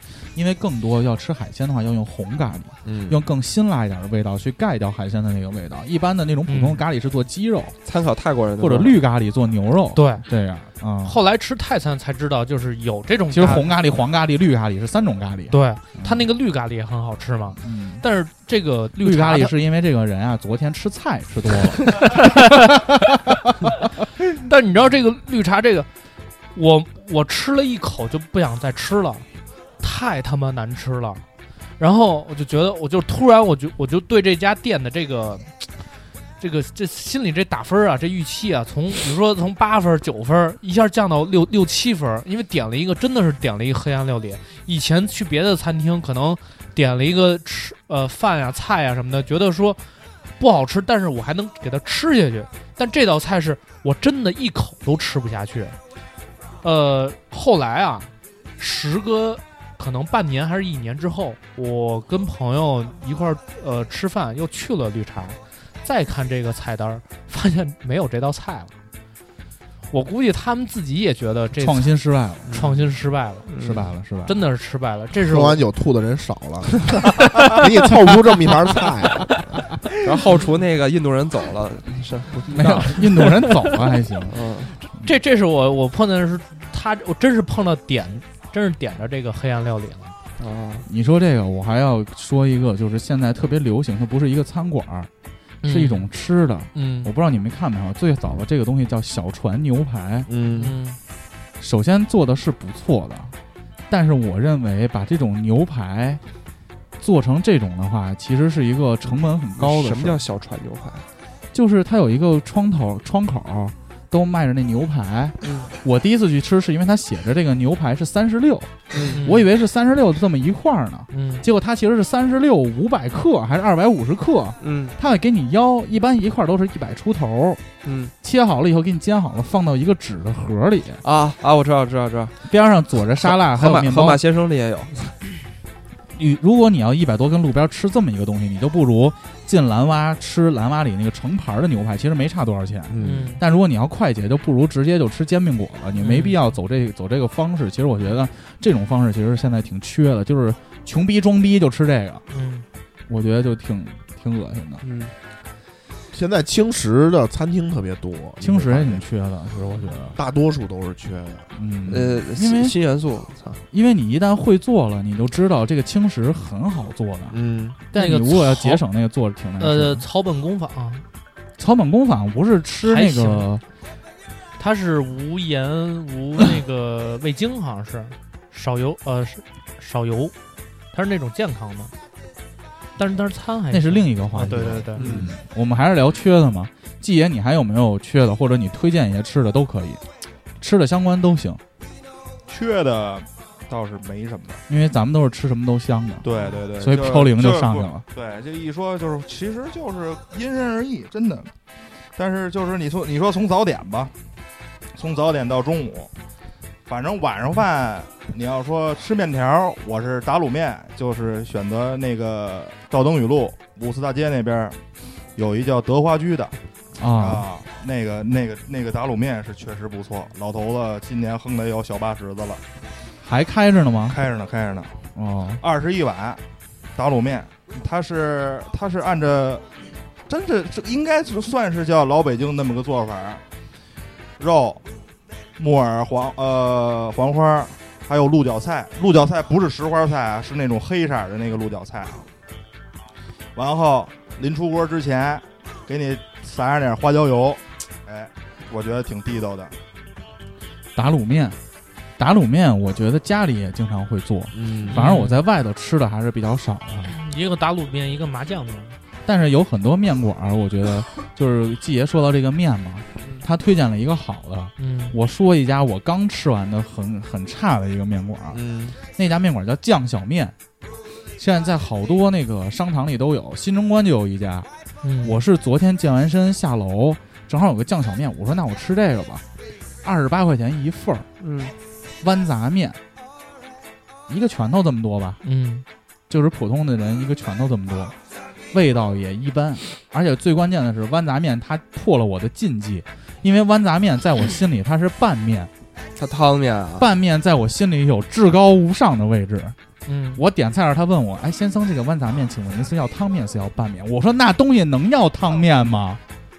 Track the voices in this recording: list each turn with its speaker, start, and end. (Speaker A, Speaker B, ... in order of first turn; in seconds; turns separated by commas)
Speaker A: 0.3-7.8, Speaker B: 2.8-3.2, Speaker C: 6.5-6.8, Speaker D: 7.8-9.0, Speaker A: 8.6-11.2, Speaker C: 9.9-10.2, Speaker C: 11.0-13.7, Speaker A: 13.3-16.2, Speaker C: 15.5-19.5, Speaker A: 17.6-18.0, Speaker A: 19.0-22.9, Speaker C: 21.9-22.8, Speaker C: 24.4-25.9, Speaker C: 26.5-29.2, Speaker C: 29.8-31.2, Speaker C: 31.8-35.5, Speaker C: 36.4-49.8, Speaker C: 50.4-55.8, Speaker C: 56.6-68.7, Speaker C: 69.9-71.9, Speaker A: 71.6-72.6, Speaker C: 72.5-73.5, Speaker D: 73.5-73.9, Speaker A: 73.6-74.4, Speaker C: 74.2-75.6, Speaker B: 75.3-79.6, Speaker D: 80.0-83.5, Speaker A: 82.5-84.4, Speaker D: 84.3-84.7, Speaker C: 84.8-90.1, Speaker D: 90.4-90.9, Speaker A: 90.9-95.1, Speaker C: 95.6-96.1, Speaker A: 95.6-100.3, Speaker C: 96.7-97.1, Speaker B: 100.3-100.7, Speaker C: 100.6-101.0, Speaker A: 101.6-103.3, Speaker A: 103.9-106.2, Speaker A: 107.0-110.2, Speaker D: 109.6-111.0, Speaker A: 111.5-118.7, Speaker D: 115.4-115.7, Speaker D: 118.9-119.2, Speaker C: 119.1-119.5, Speaker A: 119.2-127.6, Speaker C: 121.1-121.4, Speaker D: 124.6-125.0, Speaker D: 127.8-128.1, Speaker A: 128.2-131.0, Speaker D: 131.0-132.3, Speaker A: 132.5-134.2, Speaker D: 133.2-135.2, Speaker A: 136.2-152.2, Speaker B: 142.9-143.3, Speaker C: 143.0-143.4, Speaker C: 146.0-146.4, Speaker C: 152.3-152.7, Speaker A: 153.1-154.8, Speaker D: 154.8-155.1, Speaker B: 156.1-159.0, Speaker A: 158.4-160.2, Speaker B: 160.2-161.4, Speaker A: 161.6-162.7, Speaker D: 161.9-163.6, Speaker A: 163.7-170.0, Speaker B: 167.3-167.8, Speaker C: 167.9-168.8, Speaker C: 169.6-171.0, Speaker A: 171.6-173.6, Speaker C: 172.8-173.4, Speaker C: 174.6-180.3, Speaker C: 180.9-181.9, Speaker C: 183.0-185.0, Speaker A: 183.7-190.0, Speaker B: 185.0-185.3, Speaker A: 190.6-191.6, Speaker E: 192.5-194.6, Speaker A: 194.7-198.0, Speaker E: 196.2-201.5, Speaker E: 202.2-204.1, Speaker E: 204.9-206.1, Speaker E: 206.9-214.8, Speaker E: 215.3-216.5, Speaker A: 217.0-217.4, Speaker E: 217.2-222.6, Speaker A: 223.2-224.2, Speaker E: 224.1-224.9, Speaker A: 225.2-225.6, Speaker E: 225.6-226.4, Speaker E: 226.9-229.6, Speaker E: 230.3-233.4, Speaker E: 234.4-234.8, Speaker E: 235.6-242.3, Speaker E: 243.5-249.7, Speaker A: 250.9-251.6, Speaker A: 252.2-257.1, Speaker B: 254.5-255.0, Speaker C: 254.9-255.4, Speaker C: 257.1-259.0, Speaker A: 259.2-268.6, Speaker C: 264.8-265.1, Speaker B: 268.5-268.9, Speaker A: 269.1-270.5, Speaker A: 271.4-274.7, Speaker C: 275.0-275.3, Speaker A: 275.2-279.4, Speaker A: 280.0-281.3, Speaker D: 281.4-281.7, Speaker A: 282.2-283.0, Speaker A: 284.3-285.4, Speaker C: 285.4-285.8, Speaker A: 286.3-288.1, Speaker A: 288.7-295.7, Speaker D: 296.2-297.1, Speaker A: 297.0-299.8, Speaker C: 300.1-300.4, Speaker A: 300.4-306.2